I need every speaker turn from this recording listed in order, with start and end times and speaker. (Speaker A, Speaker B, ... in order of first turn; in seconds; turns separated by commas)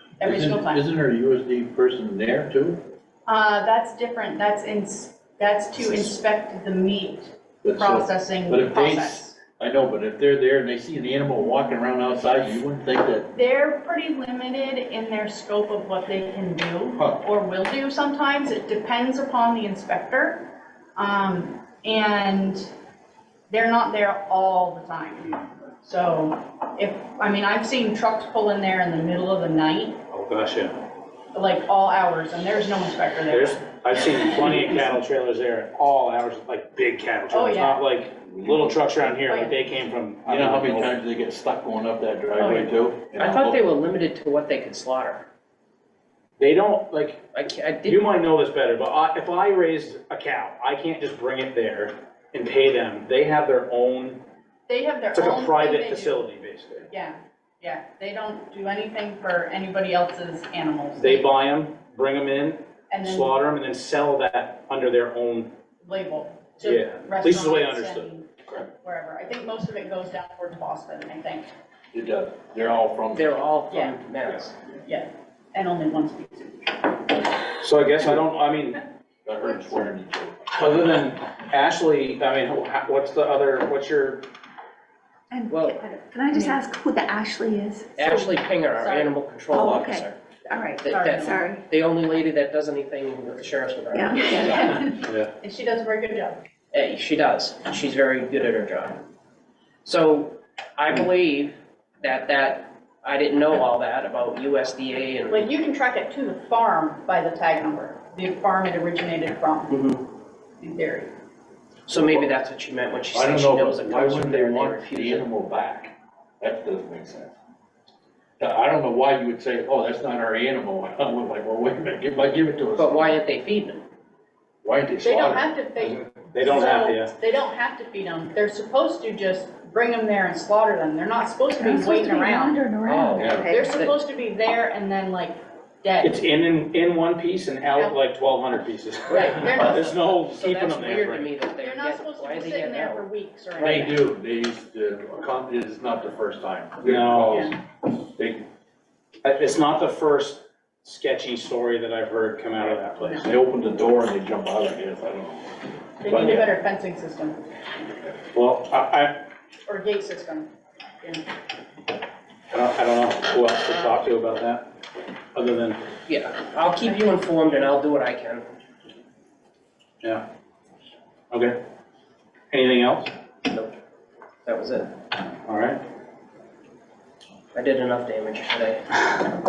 Speaker A: 0.2-0.8, Speaker B: 0.2-2.8, Speaker A: 3.3-9.3, Speaker B: 7.6-13.3, Speaker A: 13.3-22.7, Speaker A: 23.5-30.0, Speaker C: 30.1-30.8, Speaker A: 31.3-33.6, Speaker C: 33.3-40.9, Speaker A: 37.3-37.8, Speaker B: 38.4-38.9, Speaker A: 39.2-39.5, Speaker B: 40.2-43.6, Speaker D: 43.1-45.2, Speaker C: 46.4-47.2, Speaker D: 47.3-48.0, Speaker C: 47.8-54.2, Speaker A: 54.7-56.2, Speaker C: 55.1-56.9, Speaker A: 56.9-61.2, Speaker C: 61.0-65.5, Speaker A: 62.9-63.4, Speaker A: 65.8-68.3, Speaker C: 66.6-68.1, Speaker A: 68.8-71.5, Speaker B: 71.9-73.3, Speaker D: 73.1-74.5, Speaker A: 73.7-74.0, Speaker A: 74.8-76.9, Speaker C: 77.5-78.8, Speaker B: 79.2-80.5, Speaker C: 80.5-84.2, Speaker E: 85.3-88.4, Speaker D: 85.5-85.8, Speaker D: 88.0-90.2, Speaker A: 88.8-89.2, Speaker E: 89.5-91.6, Speaker D: 90.8-94.8, Speaker A: 90.9-91.5, Speaker E: 93.9-94.8, Speaker A: 94.3-96.4, Speaker C: 94.9-95.3, Speaker D: 96.7-99.0, Speaker D: 99.8-105.5, Speaker A: 105.3-109.8, Speaker D: 109.7-110.0, Speaker A: 110.6-111.1, Speaker D: 111.9-115.3, Speaker B: 113.1-117.3, Speaker B: 118.4-123.2, Speaker D: 122.8-123.8, Speaker B: 124.6-125.5, Speaker A: 125.0-132.6, Speaker C: 125.8-127.1, Speaker E: 131.5-133.7, Speaker D: 132.8-133.9, Speaker B: 133.2-133.4, Speaker A: 133.3-136.1, Speaker C: 136.0-141.3, Speaker D: 139.1-143.0, Speaker A: 139.1-139.9, Speaker A: 141.6-144.0, Speaker B: 143.6-147.6, Speaker C: 146.8-147.5, Speaker B: 148.1-148.4, Speaker C: 149.2-153.3, Speaker B: 153.2-155.5, Speaker A: 156.0-157.4, Speaker C: 156.1-156.5, Speaker C: 158.3-159.2, Speaker A: 159.7-160.5, Speaker C: 162.5-164.7, Speaker C: 165.3-165.8, Speaker D: 166.1-168.5, Speaker C: 171.3-171.6, Speaker C: 172.5-173.1, Speaker D: 173.4-173.7, Speaker D: 174.4-174.9, Speaker C: 175.4-175.8, Speaker D: 177.5-178.8